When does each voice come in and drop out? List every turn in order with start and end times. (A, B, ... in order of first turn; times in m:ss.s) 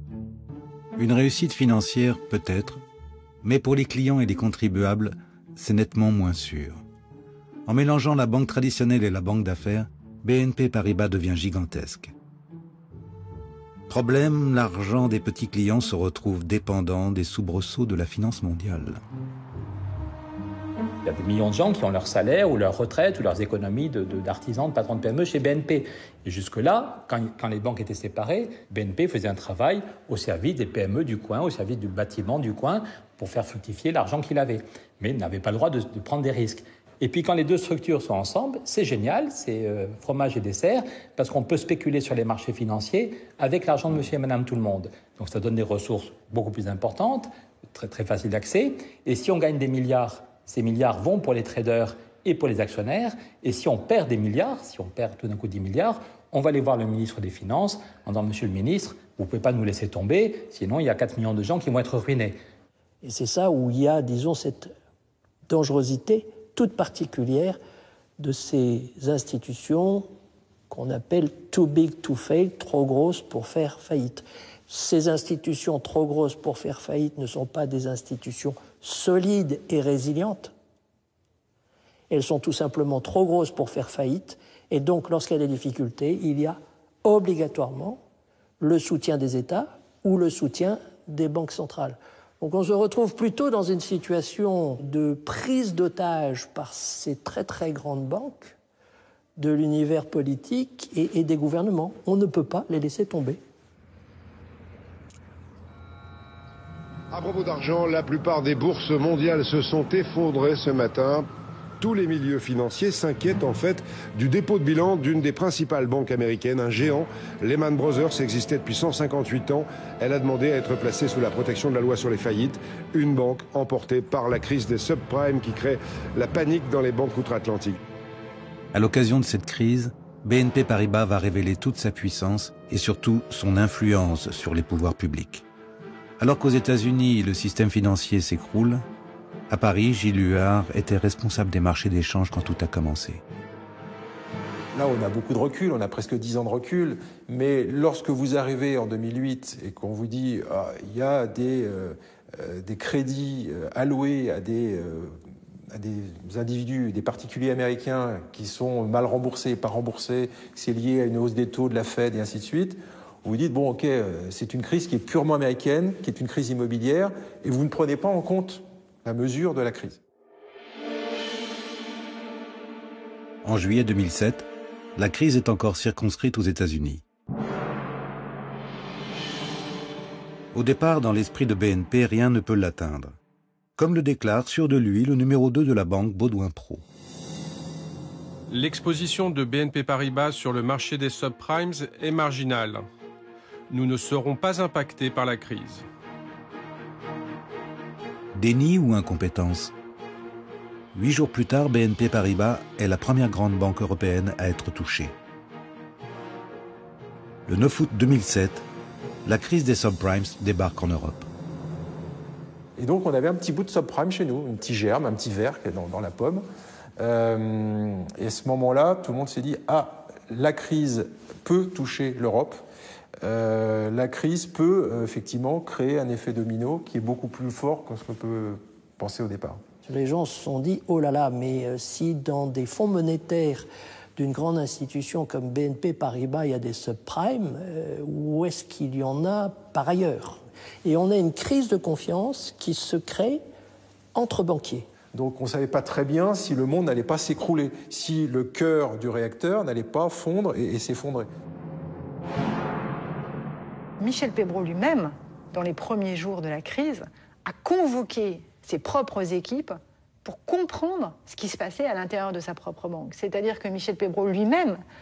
0:01.0-0:02.8 A
0:03.4-0:06.8 A
0:07.6-0:12.1 A
0:13.9-0:19.0 A
0:21.0-1:02.4 B
1:03.0-1:04.7 C
1:05.5-1:07.6 C
1:08.2-1:10.1 C
1:10.7-1:20.5 C
1:22.1-1:28.0 C
1:28.6-1:38.6 C
1:39.4-1:43.4 C
1:47.1-1:51.3 D
1:51.8-2:07.8 D
2:08.7-2:15.4 A
2:16.2-2:18.8 A
2:19.5-2:23.2 A
2:24.7-2:50.0 E
2:53.4-2:57.0 A
3:00.5-3:03.2 A
3:03.8-3:06.8 A
3:08.5-3:12.9 F
3:13.7-3:15.8 F
3:18.3-3:19.7 A
3:20.9-3:25.1 A
3:27.5-3:28.6 A
3:29.2-3:31.3 A
3:32.8-3:36.4 E
3:37.0-3:42.6 E
3:43.2-3:49.6 E
3:49.8-4:03.4 C
4:04.1-4:04.9 C
4:05.1-4:11.3 E
4:14.0-4:24.8 G